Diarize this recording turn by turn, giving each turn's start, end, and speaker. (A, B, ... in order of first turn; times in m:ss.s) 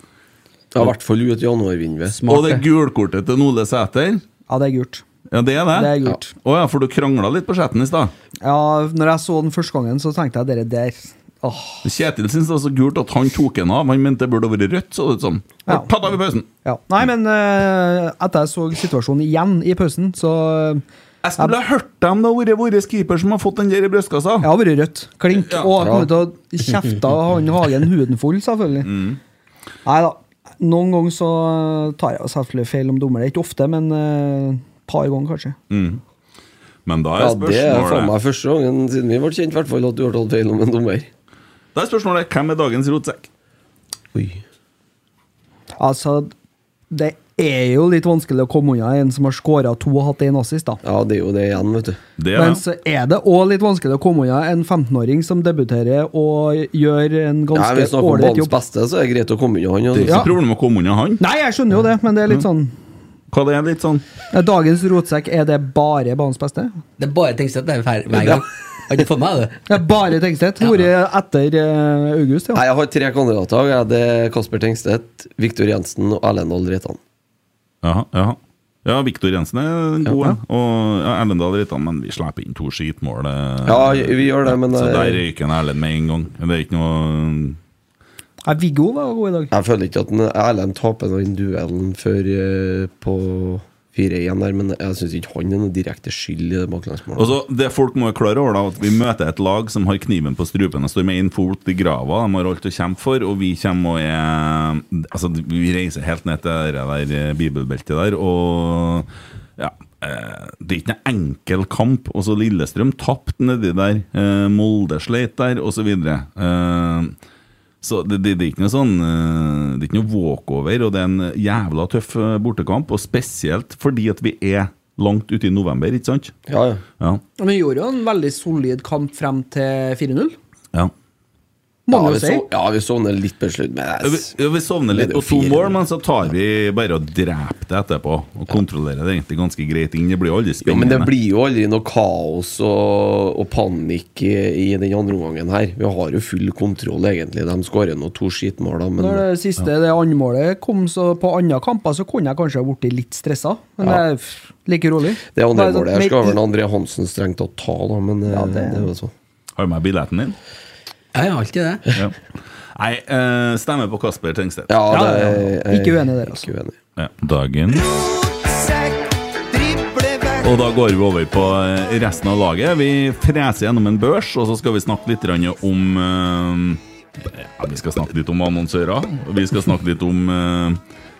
0:00.7-0:02.2 A
0:02.1-0:02.6 B
0:02.2-0:04.2 C
0:04.5-0:05.0 D
0:05.3-0:08.1 C
0:05.7-0:06.3 D
0:08.4-0:11.8 D
0:11.8-0:16.4 C
0:15.6-0:15.9 D
0:16.6-0:20.8 D
0:21.2-0:24.5 C
0:24.4-0:28.9 D
0:25.3-0:25.9 C
0:25.8-0:26.1 A
0:28.8-0:29.2 C
0:29.8-0:35.6 D
0:35.7-0:36.0 C
0:36.8-0:38.1 C
0:37.2-0:41.1 A
0:41.7-0:43.3 C
0:44.1-0:44.4 A
0:45.8-0:46.3 D
0:46.9-0:50.8 D
0:50.8-0:52.0 A
0:52.2-0:52.6 C
0:52.3-0:58.5 D
0:57.5-1:00.3 A
0:59.9-1:01.2 C
1:00.0-1:00.3 D
1:01.2-1:02.7 D
1:03.3-1:04.0 C
1:04.3-1:06.8 D
1:07.0-1:09.6 B
1:09.7-1:12.6 D
1:12.5-1:17.0 A
1:17.8-1:27.6 C
1:23.6-1:25.2 A
1:28.4-1:29.5 D
1:29.5-1:37.3 A
1:37.2-1:57.1 C
1:57.8-2:06.3 C
2:06.5-2:06.8 A
2:07.4-2:10.4 D
2:11.9-2:12.4 D
2:11.9-2:14.3 A
2:14.0-2:21.1 C
2:14.9-2:15.8 A
2:20.6-2:29.2 A
2:29.0-2:36.4 D
2:35.3-2:39.1 A
2:38.3-2:38.9 D
2:39.6-2:40.4 C
2:41.1-2:41.9 B
2:42.7-2:44.7 C
2:44.7-2:46.8 A
2:44.9-2:46.5 D
2:47.0-2:47.9 C
2:47.7-2:50.5 D
2:50.4-3:00.8 C